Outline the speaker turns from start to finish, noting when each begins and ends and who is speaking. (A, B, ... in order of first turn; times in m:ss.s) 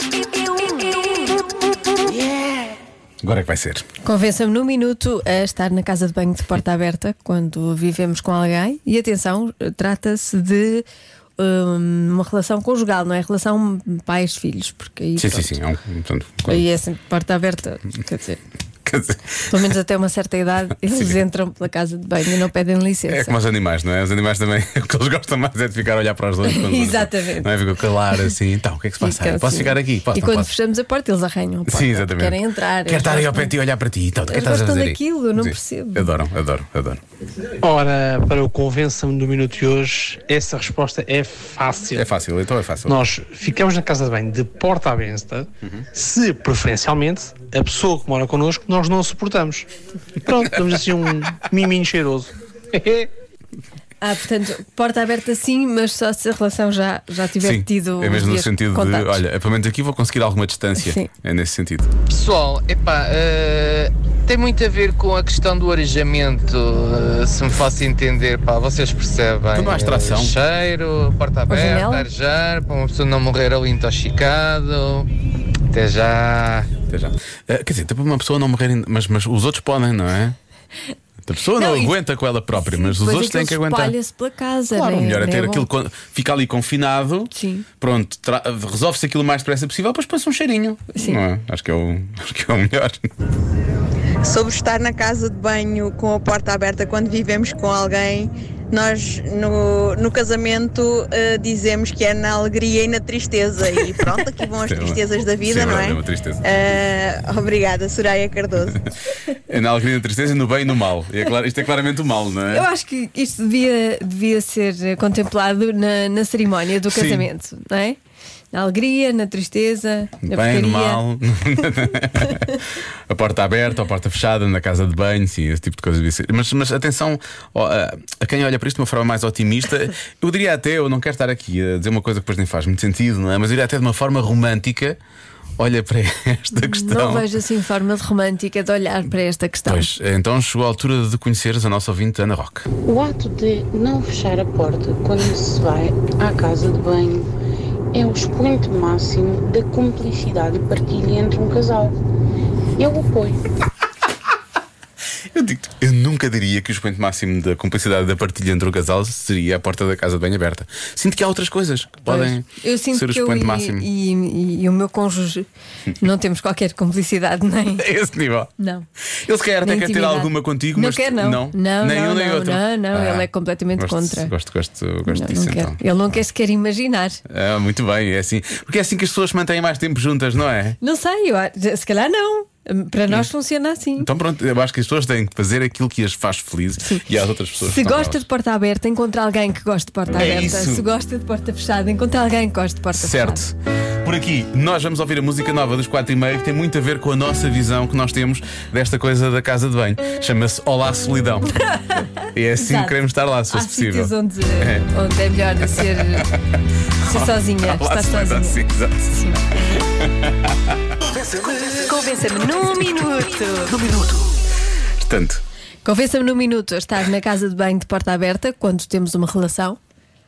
0:00.3-0:01.4 A
0:02.0-0:03.8 B
0:04.0-0:10.8 A
0:11.4-0:15.6 A
0:15.2-0:16.6 B
0:16.4-0:18.4 A
0:18.8-0:19.6 B
0:19.5-0:23.4 A
0:20.9-0:21.2 B
0:23.1-0:30.5 B
0:26.4-0:27.5 A
0:29.0-0:33.5 A
0:31.7-0:37.0 B
0:34.3-0:36.1 A
0:37.6-0:42.0 C
0:41.9-0:43.0 B
0:42.8-0:49.7 C
0:50.2-0:53.1 C
0:54.0-0:59.2 A
0:57.4-1:01.9 B
1:00.8-1:01.1 A
1:02.1-1:15.1 D
1:09.5-1:10.4 B
1:11.5-1:12.1 A
1:15.7-1:16.7 D
1:16.9-1:20.4 B
1:21.2-1:23.9 B
1:21.6-1:22.0 A
1:22.6-1:25.7 A
1:24.7-1:33.1 B
1:27.3-1:27.6 A
1:30.9-1:31.2 A
1:34.2-1:48.8 E
1:44.6-1:46.4 B
1:49.5-1:52.7 B
1:52.5-1:58.0 A
1:56.9-1:57.3 B
1:58.5-2:01.0 A
2:00.2-2:15.0 B
2:15.6-2:17.3 B
2:16.5-2:19.9 A
2:19.7-2:22.7 B
2:22.9-2:27.3 F
2:27.9-2:32.0 F
2:32.8-2:33.4 F
2:35.3-2:43.9 B
2:42.1-2:45.5 A
2:46.0-2:47.8 A
2:47.8-2:48.5 B
2:48.6-2:48.9 A
2:49.1-2:55.8 B
2:49.6-2:54.3 A
2:55.1-2:57.2 A
2:57.3-3:00.8 B
3:00.8-3:04.1 A
3:04.0-3:08.2 B
3:07.6-3:13.4 A
3:10.1-3:10.9 B
3:12.9-3:21.6 B
3:21.7-3:23.0 A
3:22.2-3:24.9 B
3:23.5-3:26.3 A
3:25.7-3:26.3 B
3:27.0-3:31.9 B
3:27.0-3:28.6 A
3:31.8-3:33.7 A
3:33.6-3:34.4 B
3:35.0-3:35.4 B
3:35.8-3:39.8 A